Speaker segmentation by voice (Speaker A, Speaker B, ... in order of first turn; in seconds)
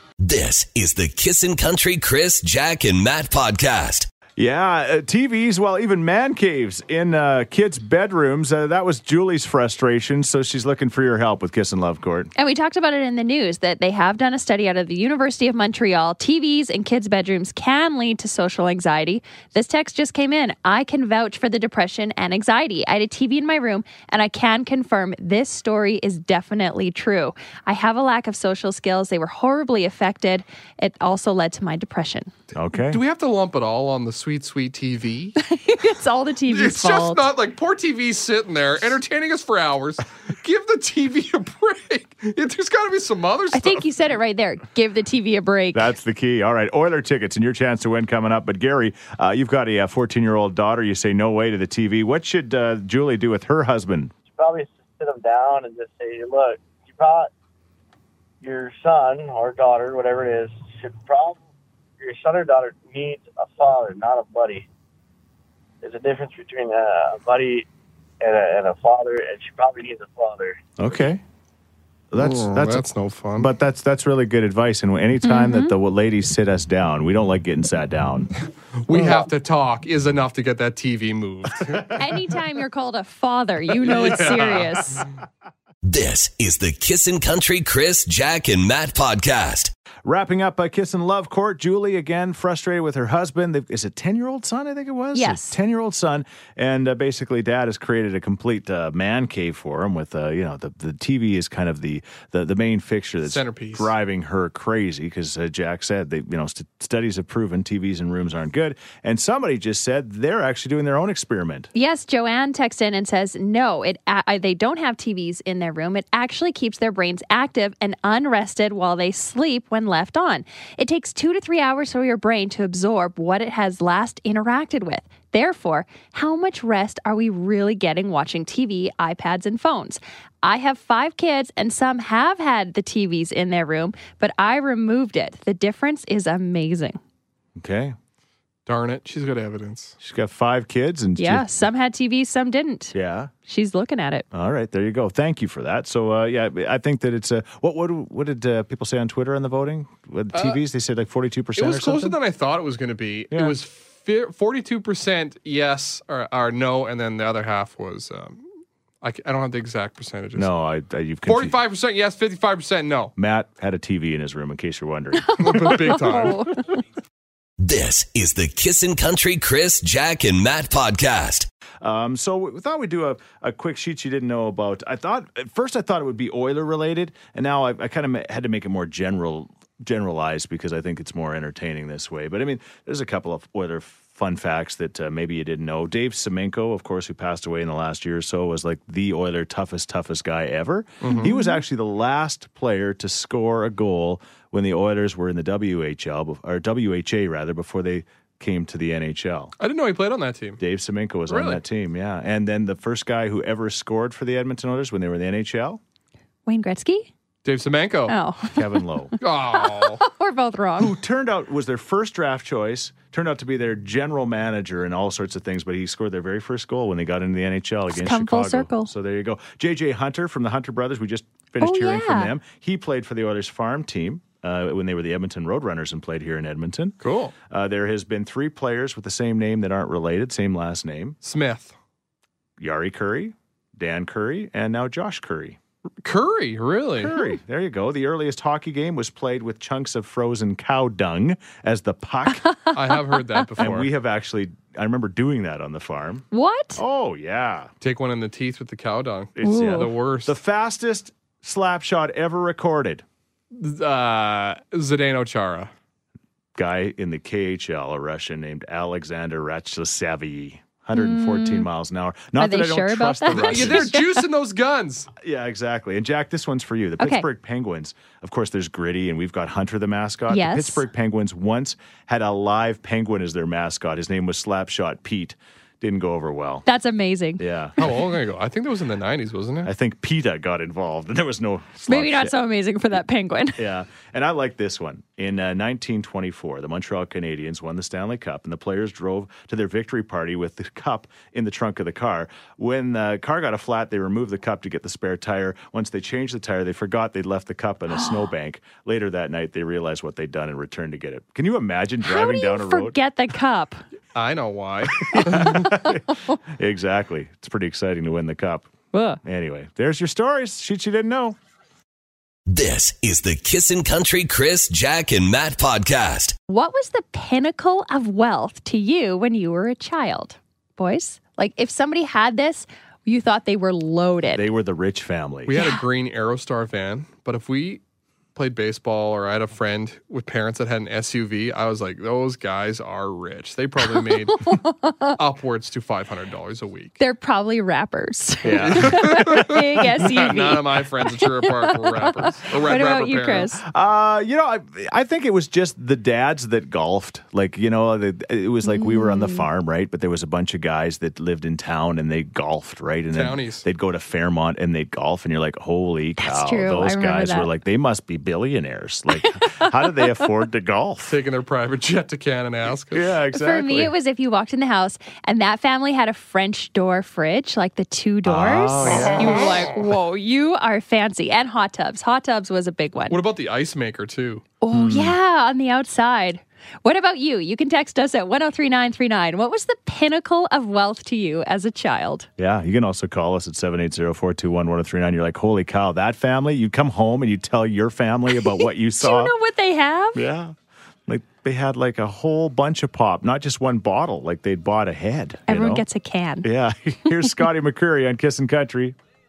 Speaker A: 0.2-4.1, 85.8-89.7, 167.6-171.5, 312.5-316.3
Speaker B: 4.4-12.3, 32.5-33.0, 45.7-54.1, 70.8-71.2, 72.1-72.9, 73.4-78.3, 78.9-79.2, 90.0-111.7, 137.6-137.9, 140.0-141.5, 142.9-143.3, 144.3-152.2, 153.3-153.6, 160.3-161.6, 163.2-166.0, 171.8-199.5, 200.6-205.8, 208.5-209.1, 210.8-227.0, 227.5-231.2, 232.6-235.6, 237.0-242.7, 243.6-247.7, 249.4-253.0, 256.6-264.0, 265.2-276.6, 277.4-277.8, 279.6-282.4, 283.6-303.0, 305.1-308.7, 309.2-311.4, 324.3-325.6, 338.4-340.3, 343.6-361.2, 362.9-363.9, 368.2-369.6, 374.7-375.1, 382.4-389.3, 390.1-390.5, 391.1-395.8, 396.4-399.0
Speaker C: 12.3-32.3, 35.4-37.2, 43.5-45.9, 75.2-75.7, 82.0-85.0, 95.1-95.6, 111.7-137.0, 141.2-142.9, 143.4-144.2, 165.2-166.8, 206.5-207.1, 208.1-208.8, 209.5-210.9, 217.9-218.9, 221.6-222.3, 242.3-242.8, 246.3-246.8, 249.4-249.9, 260.9-261.7, 262.4-264.0, 267.0-267.3, 270.3-270.8, 276.6-277.9, 281.9-283.6, 297.9-298.2, 302.0-303.8, 308.9-309.2, 316.5-324.5, 333.8-335.2, 337.0-343.6, 348.6-349.5, 356.2-357.5, 359.2-359.6, 363.3-373.2, 374.6-382.3, 388.6-390.2, 395.5-396.5
Speaker D: 32.9-35.4, 36.5-43.9, 72.2-73.5, 78.8-81.9, 83.8-84.7, 103.2-103.9, 138.7-139.9, 150.3-150.6, 151.6-158.4, 159.0-160.5, 161.3-163.1, 165.4-166.4, 191.0-191.3, 199.6-200.6, 201.3-201.6, 207.4-208.1, 209.2-210.0, 227.0-227.3, 231.2-231.8, 236.0-237.2, 242.7-243.9, 247.8-250.3, 253.5-255.7, 263.3-265.1, 277.8-279.7, 304.1-305.8, 325.5-327.8, 328.3-334.5, 335.2-337.0, 338.6-343.5, 353.1-353.6, 361.1-363.1, 373.1-374.4
Speaker E: 54.3-57.3, 58.4-61.4, 62.0-64.7, 65.8-67.7, 68.2-70.6